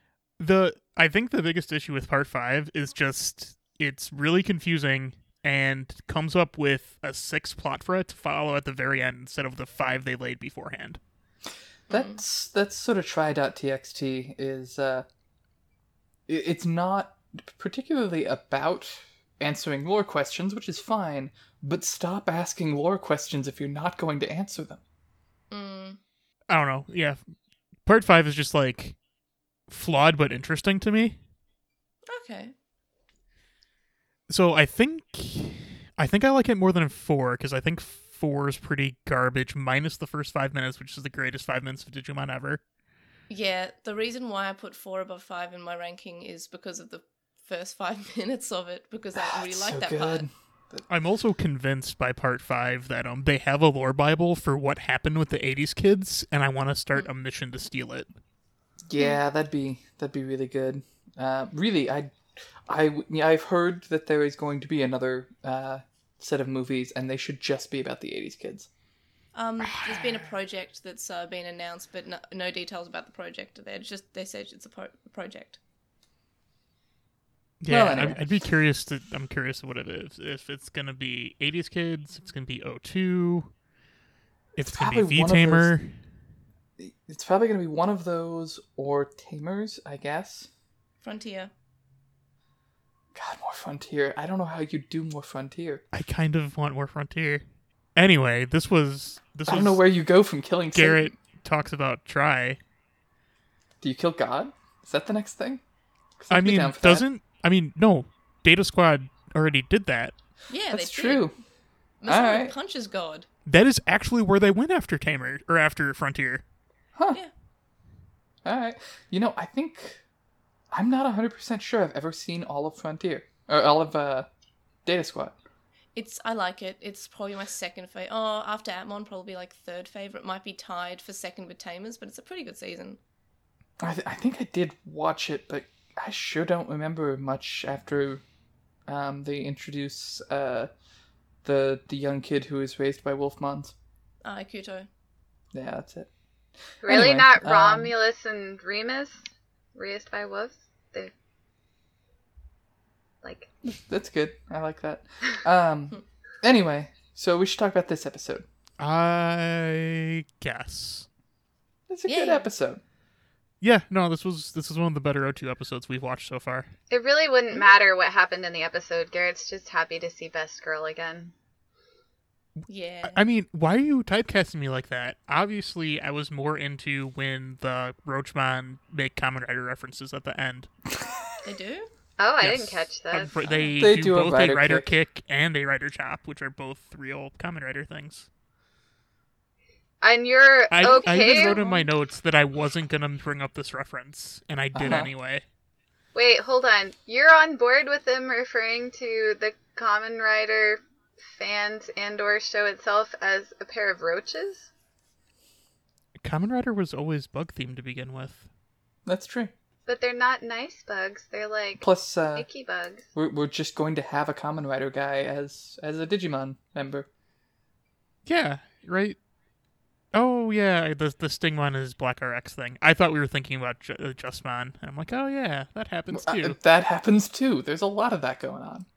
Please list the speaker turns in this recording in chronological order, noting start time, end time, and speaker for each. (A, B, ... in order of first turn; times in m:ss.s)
0:00.4-0:11.0 A
0:11.9-0:12.2 B
0:11.9-0:15.0 C
0:16.3-0:24.8 C
0:25.5-0:26.0 B
0:26.5-0:27.2 A
0:27.8-0:29.0 A
0:29.7-0:31.2 A
0:32.1-0:32.5 B
0:34.3-0:42.6 A
0:43.3-0:50.2 B
0:49.1-0:50.8 C
0:50.9-0:58.1 A
0:58.9-1:02.1 C
1:02.7-1:08.7 C
1:09.3-1:15.6 B
1:17.6-1:23.5 A
1:17.7-1:18.2 C
1:24.6-1:26.0 A
1:24.6-1:25.7 C
1:26.8-1:30.5 C
1:31.0-1:31.5 B
1:33.1-1:35.8 C
1:35.9-1:37.4 A
1:37.9-1:39.8 A
1:39.5-1:41.1 C
1:40.7-1:42.6 A
1:43.8-1:45.6 C
1:46.2-1:47.0 C
1:46.3-1:50.1 A
1:50.5-1:51.3 B
1:50.7-1:51.3 C
1:52.0-1:53.3 B
1:52.0-1:52.5 C
1:53.4-1:56.4 A
1:56.9-1:57.2 C
1:58.4-2:00.0 C
2:00.7-2:04.3 C
2:04.8-2:05.4 C
2:05.9-2:13.0 B
2:13.8-2:18.2 C
2:18.9-2:20.7 C
2:21.4-2:23.7 C
2:24.2-2:24.9 B
2:25.5-2:26.1 C
2:26.8-2:31.1 D
2:26.8-2:27.9 C
2:33.2-2:33.5 D
2:33.7-2:38.4 C
2:38.8-2:41.1 A
2:41.9-2:42.8 C
2:42.0-2:42.5 B
2:43.6-2:46.7 A
2:46.9-2:51.3 D
2:52.7-2:53.2 B
2:53.0-3:00.7 A
3:00.9-3:01.2 C
3:01.4-3:01.9 B
3:02.2-3:03.7 D
3:02.4-3:08.3 A
3:03.8-3:04.9 C
3:10.0-3:11.9 D
3:10.7-3:15.4 A
3:14.7-3:15.1 C
3:16.1-3:20.8 D
3:21.4-3:24.7 D
3:26.2-3:28.5 A
3:29.0-3:29.5 C
3:29.9-3:33.0 D
3:31.8-3:32.5 C
3:33.1-3:37.1 C
3:38.2-3:39.2 A
3:40.1-3:46.6 A
3:46.1-3:48.8 C